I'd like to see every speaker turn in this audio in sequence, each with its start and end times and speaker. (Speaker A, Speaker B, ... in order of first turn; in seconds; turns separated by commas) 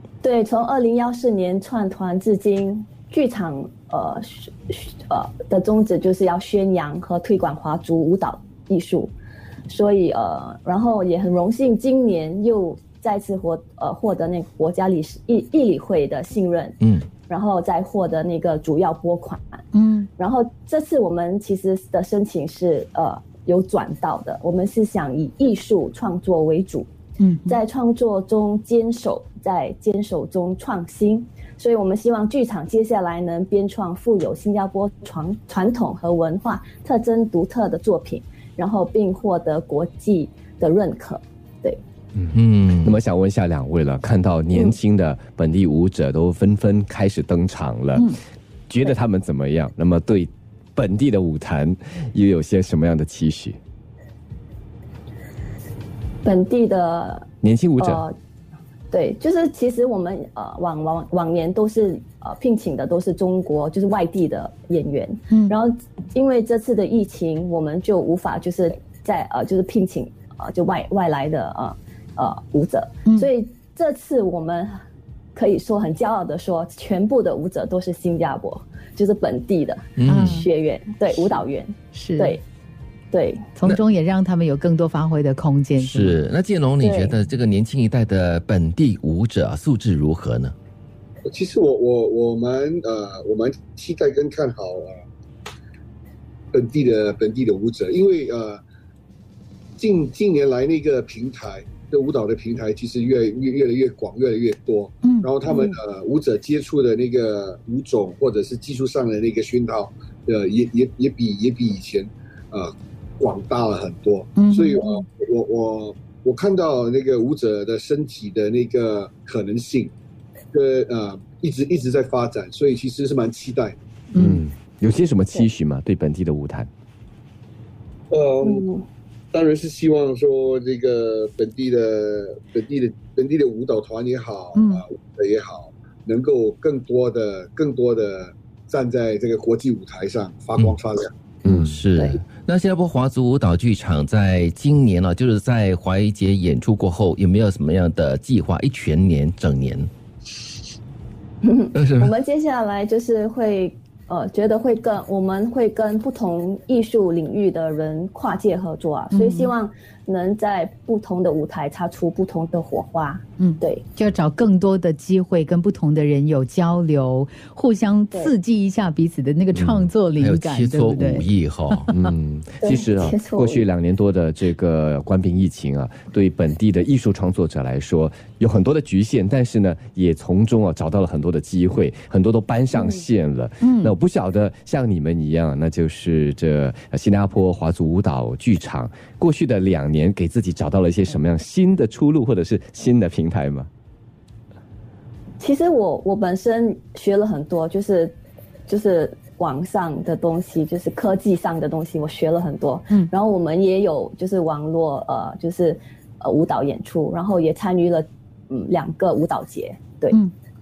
Speaker A: 0.2-9.1, Speaker A: 9.7-19.6, Speaker B: 16.8-17.1, Speaker C: 19.7-20.1, Speaker A: 20.2-26.9, Speaker C: 27.2-27.6, Speaker A: 27.5-41.8, Speaker B: 42.2-43.0, Speaker D: 42.8-48.1, Speaker D: 48.7-53.6, Speaker A: 56.2-57.3, Speaker D: 57.4-58.0, Speaker A: 57.8-58.1, Speaker A: 58.9-74.8, Speaker A: 75.3-82.4, Speaker B: 80.0-80.5, Speaker C: 80.0-80.5, Speaker C: 81.9-82.4, Speaker A: 83.1-83.5, Speaker C: 83.5-86.2, Speaker B: 85.8-90.5, Speaker A: 86.8-87.1, Speaker E: 91.2-95.0, Speaker E: 96.5-98.6, Speaker E: 99.8-119.9, Speaker C: 105.0-105.4, Speaker A: 105.5-105.7, Speaker C: 114.3-115.0, Speaker E: 120.5-123.8, Speaker C: 124.1-124.4, Speaker D: 124.1-126.7, Speaker E: 128.1-128.6, Speaker A: 128.4-128.8, Speaker E: 129.3-141.1, Speaker C: 134.5-134.8, Speaker D: 141.4-141.8, Speaker B: 141.5-149.9, Speaker A: 151.4-163.9, Speaker B: 151.7-152.1, Speaker C: 159.1-159.5, Speaker C: 163.4-171.8, Speaker D: 169.5-169.9, Speaker B: 170.2-171.9, Speaker D: 171.9-193.7, Speaker A: 172.6-173.6, Speaker C: 183.6-183.9, Speaker A: 195.4-210.2